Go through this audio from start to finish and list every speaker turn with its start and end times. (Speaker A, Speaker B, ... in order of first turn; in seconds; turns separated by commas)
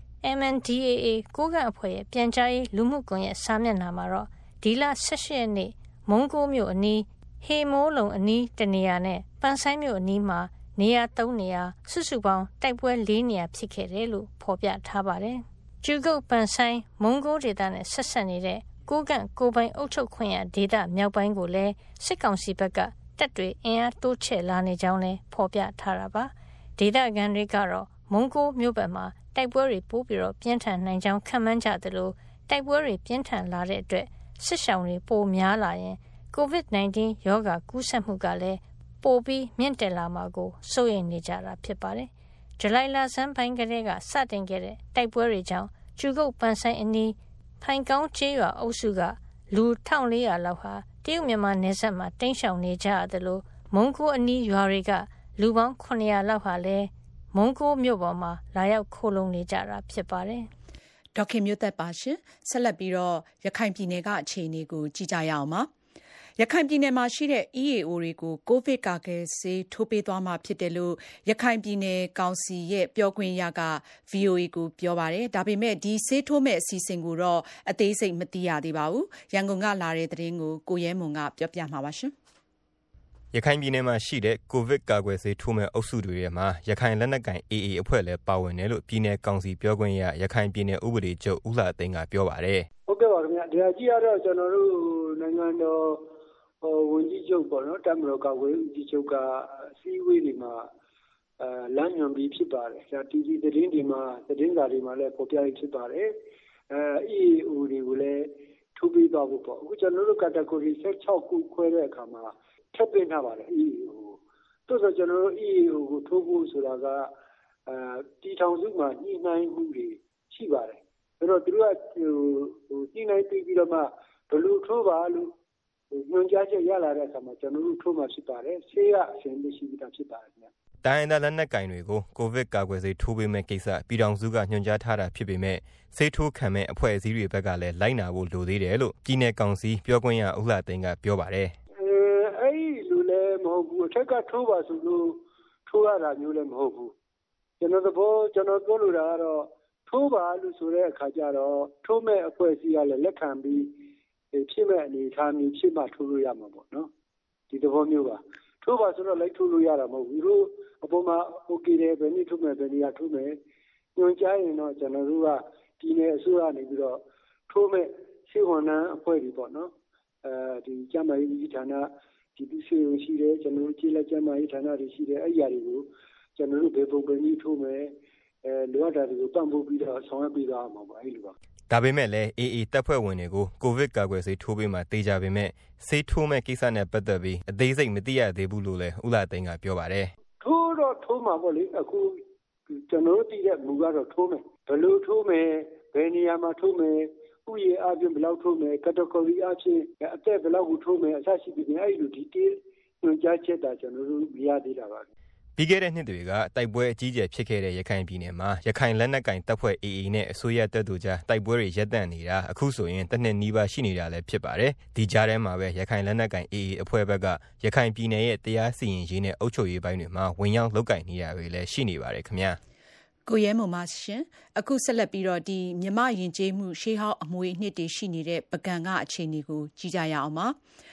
Speaker A: 0.2-60.5, Speaker B: 61.1-65.7, Speaker B: 66.4-82.1, Speaker C: 83.3-92.7, Speaker D: 92.9-96.1, Speaker D: 96.6-100.7, Speaker D: 101.4-106.2, Speaker D: 106.7-117.1, Speaker D: 117.7-125.3, Speaker D: 125.9-130.5, Speaker C: 130.8-141.6, Speaker D: 141.8-146.9, Speaker D: 147.6-153.8, Speaker D: 154.3-156.9, Speaker D: 157.5-163.4, Speaker D: 163.9-169.7, Speaker D: 170.2-177.9, Speaker D: 178.4-181.3, Speaker C: 181.7-190.1, Speaker D: 190.4-192.2, Speaker D: 192.7-205.1, Speaker C: 205.6-222.6, Speaker B: 223.2-230.6